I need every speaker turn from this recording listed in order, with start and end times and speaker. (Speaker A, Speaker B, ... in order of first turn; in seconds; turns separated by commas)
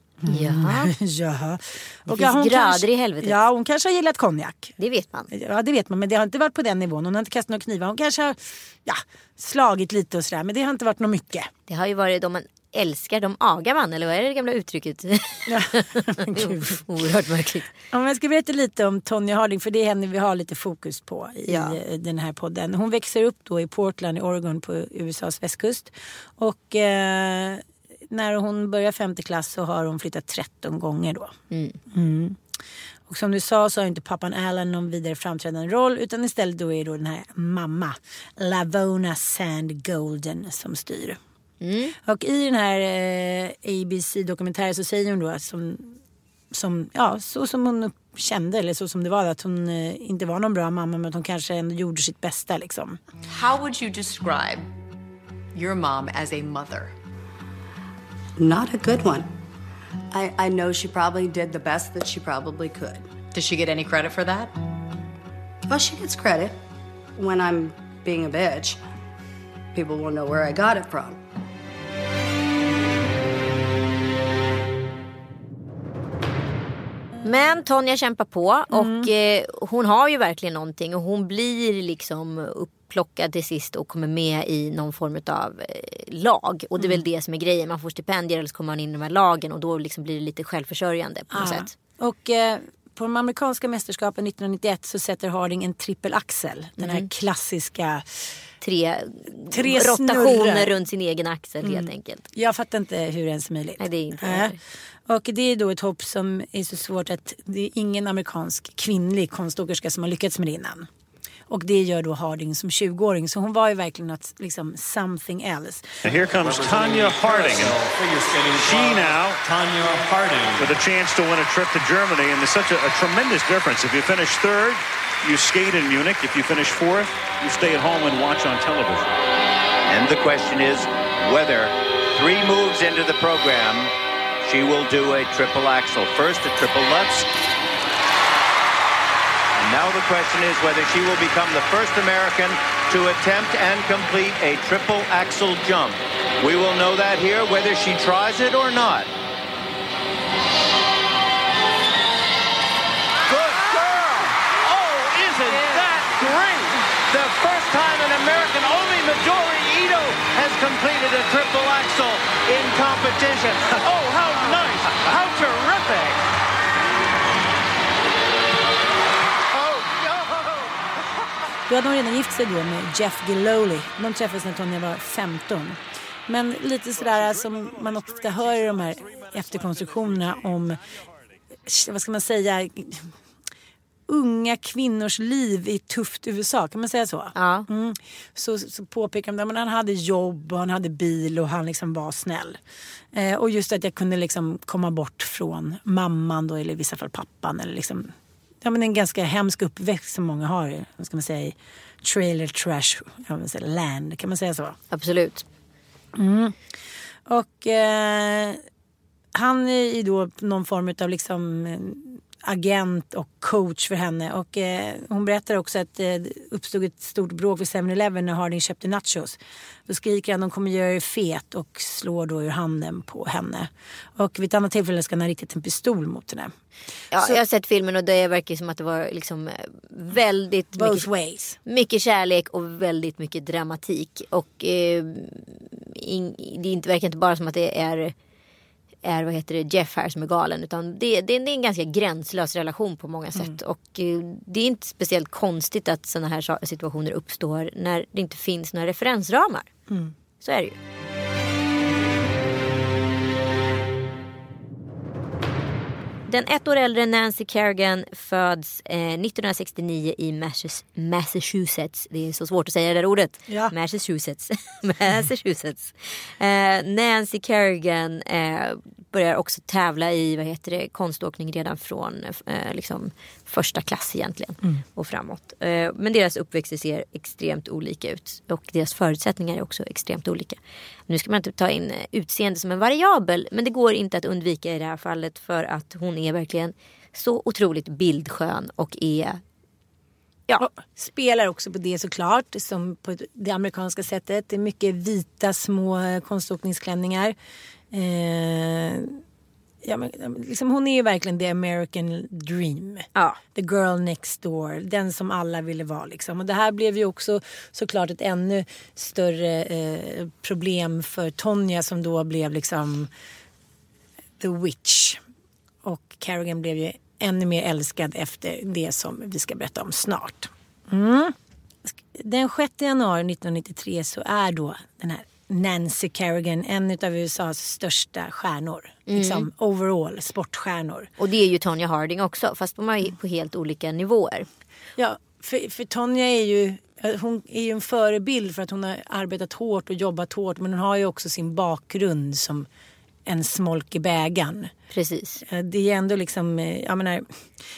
Speaker A: 0.2-4.8, Speaker B: 0.3-0.9, Speaker B: 2.1-3.4, Speaker B: 4.8-5.3, Speaker A: 5.3-11.5, Speaker B: 11.7-17.7, Speaker A: 15.5-16.8, Speaker A: 17.9-31.3, Speaker B: 21.5-21.8, Speaker B: 31.5-31.8, Speaker A: 31.9-32.4, Speaker A: 33.1-41.2, Speaker B: 41.6-41.9, Speaker A: 42.0-46.0, Speaker A: 46.5-53.0, Speaker C: 53.3-54.7, Speaker C: 55.5-56.9, Speaker D: 58.4-59.3, Speaker D: 60.1-63.2, Speaker C: 63.3-64.5, Speaker D: 65.7-66.6, Speaker D: 67.2-68.8, Speaker D: 69.7-71.2, Speaker B: 77.2-91.7, Speaker A: 78.8-79.1, Speaker A: 91.3-98.1, Speaker B: 96.8-97.1, Speaker B: 98.6-102.2, Speaker A: 99.5-100.8, Speaker A: 101.6-104.5, Speaker B: 103.8-104.6, Speaker A: 105.1-110.9, Speaker A: 111.5-116.0, Speaker E: 116.0-117.8, Speaker F: 116.8-119.1, Speaker E: 118.3-129.1, Speaker F: 120.0-120.6, Speaker F: 129.9-133.9, Speaker F: 134.4-137.3, Speaker F: 139.6-149.1, Speaker F: 153.3-166.2, Speaker F: 169.6-170.1, Speaker A: 171.7-180.8, Speaker A: 181.7-183.1, Speaker A: 184.1-192.6, Speaker B: 187.4-187.7, Speaker A: 193.1-198.1, Speaker A: 198.6-204.8, Speaker B: 204.9-205.4, Speaker A: 206.2-206.5, Speaker A: 207.3-208.6, Speaker A: 209.3-226.5, Speaker B: 227.1-231.1, Speaker A: 230.8-231.6, Speaker B: 231.7-238.1, Speaker B: 239.0-249.7, Speaker B: 250.4-250.8, Speaker B: 256.3-289.4, Speaker A: 263.5-263.7, Speaker A: 290.6-297.4, Speaker A: 297.9-299.2, Speaker A: 299.8-313.1, Speaker A: 314.4-315.2, Speaker A: 315.8-321.3, Speaker A: 321.9-331.1, Speaker B: 329.1-329.4, Speaker B: 331.2-334.5, Speaker A: 335.0-342.7, Speaker A: 343.3-344.7, Speaker B: 344.9-345.4, Speaker A: 345.4-347.3